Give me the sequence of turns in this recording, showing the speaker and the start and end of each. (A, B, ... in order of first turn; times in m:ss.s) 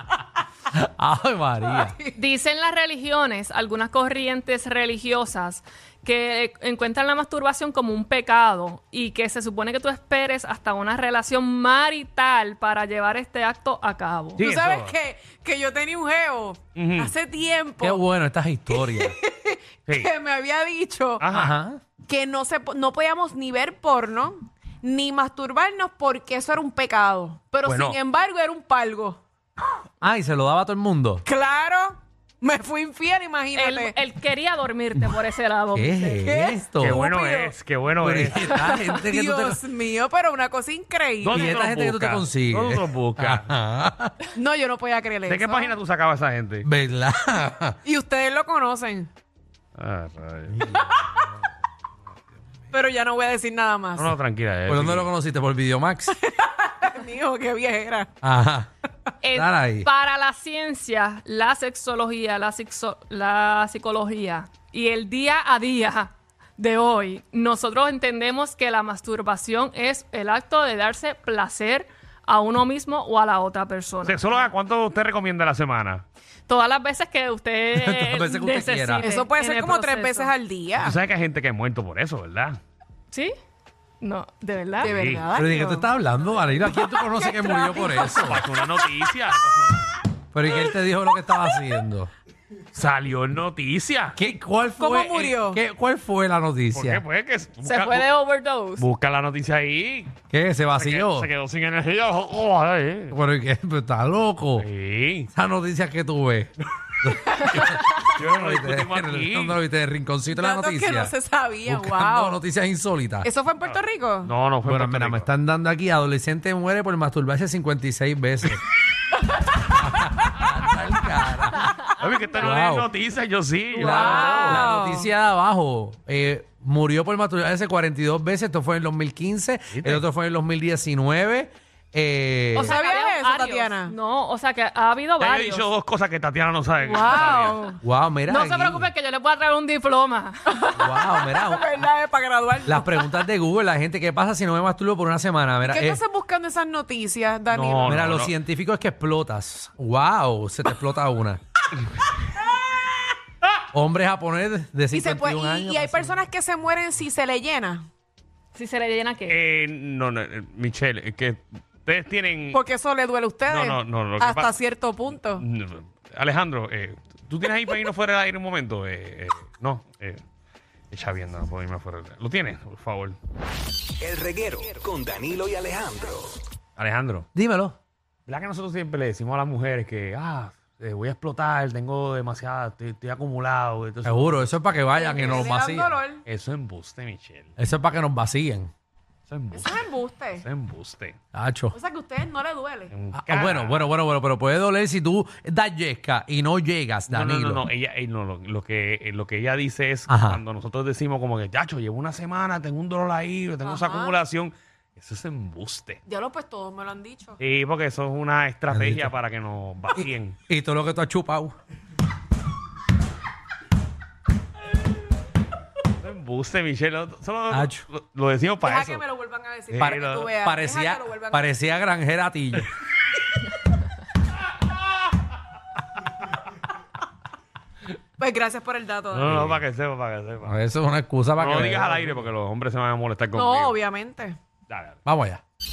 0:00.7-0:02.0 A
0:02.1-0:14.4 B
0:14.4-0:18.0 C
0:14.4-0:14.9 D
0:16.8-0:17.1 D
0:17.8-0:19.2 A
0:18.7-0:21.2 C
0:21.2-0:21.6 D
0:21.3-0:21.8 A
0:22.0-0:29.2 C
0:27.6-0:28.0 D
0:30.0-0:31.2 A
0:31.2-0:34.0 C
0:33.5-0:36.3 B
0:35.7-0:37.0 A
0:36.2-0:37.6 C
0:36.8-0:38.5 D
0:38.0-0:39.6 A
0:38.6-0:41.6 C
0:41.2-0:43.5 D
0:41.3-0:44.1 A
0:44.3-0:45.7 C
0:45.3-0:46.7 D
0:46.6-0:47.8 A
0:47.8-0:49.1 C
0:49.8-0:50.7 D
0:50.6-0:50.9 A
0:50.7-0:51.2 C
0:52.7-0:54.1 C
0:53.9-0:55.1 D
0:54.7-0:56.1 A
0:56.1-0:58.1 C
0:58.2-0:58.7 A
0:59.2-1:14.4 B
0:59.3-0:59.9 A
1:14.0-1:16.0 D
1:16.5-1:20.3 B
1:17.7-1:19.1 A
1:19.0-1:21.0 C
1:20.8-1:22.6 D
1:24.0-1:24.9 B
1:24.8-1:25.9 C
1:24.8-1:25.3 D
1:25.3-1:28.4 A
1:26.7-1:28.6 C
1:28.1-1:29.9 D
1:30.3-1:32.1 A
1:32.7-1:34.2 D
1:34.1-1:37.0 A
1:34.8-1:35.6 C
1:36.7-1:38.1 D
1:37.6-1:38.8 B
1:38.8-1:40.2 D
1:40.3-1:41.3 A
1:40.8-1:43.2 D
1:43.1-1:44.7 A
1:44.6-1:45.3 D
1:45.3-1:46.5 A
1:47.0-1:51.1 A
1:47.4-1:49.6 D
1:50.3-1:52.4 C
1:51.6-1:53.3 A
1:53.2-1:54.3 C
1:53.6-1:55.3 D
1:54.6-1:58.6 A
1:59.6-2:01.8 A
2:02.0-2:04.7 D
2:02.4-2:02.9 A
2:03.8-2:05.1 C
2:03.8-2:12.8 A
2:03.9-2:04.5 B
2:09.7-2:10.0 D
2:12.5-2:13.9 C
2:12.6-2:15.7 B
2:15.2-2:17.7 D
2:16.8-2:17.8 C
2:17.8-2:18.9 A
2:18.2-2:20.7 B
2:20.5-2:23.1 C
2:20.7-2:21.7 A
2:22.6-2:26.0 A
2:25.6-2:28.0 C
2:27.5-2:28.3 D
2:27.8-2:31.4 A
2:33.7-2:36.2 A
2:34.9-2:37.8 C
2:38.5-2:39.4 B
2:39.3-2:42.6 D
2:42.5-2:45.4 C
2:43.5-2:44.6 D
2:45.4-2:50.2 D
2:50.9-2:53.2 D
2:54.0-2:56.4 E
2:56.8-2:57.2 D
2:57.3-2:57.7 A
2:58.3-3:04.4 D
3:04.0-3:05.9 A
3:04.9-3:06.2 C
3:05.2-3:05.5 D
3:06.2-3:07.5 D
3:07.6-3:08.7 A
3:09.3-3:11.2 D
3:09.5-3:10.4 C
3:11.3-3:11.7 A
3:11.7-3:12.9 C
3:12.9-3:13.9 D
3:13.1-3:17.6 A
3:17.1-3:26.0 D
3:20.1-3:20.4 A
3:23.6-3:24.2 C
3:26.0-3:27.4 C
3:27.4-3:30.4 D
3:28.7-3:29.1 A
3:30.0-3:31.5 A
3:36.0-3:39.0 D
3:37.5-3:37.8 A
3:38.6-3:41.5 C
3:39.7-3:40.3 D
3:39.8-3:42.7 A
3:48.2-3:49.6 C
3:49.1-3:50.5 D
3:50.4-3:52.2 A
3:51.4-3:53.8 D
3:53.3-3:54.4 C
3:54.7-3:55.0 D
3:55.0-3:55.4 A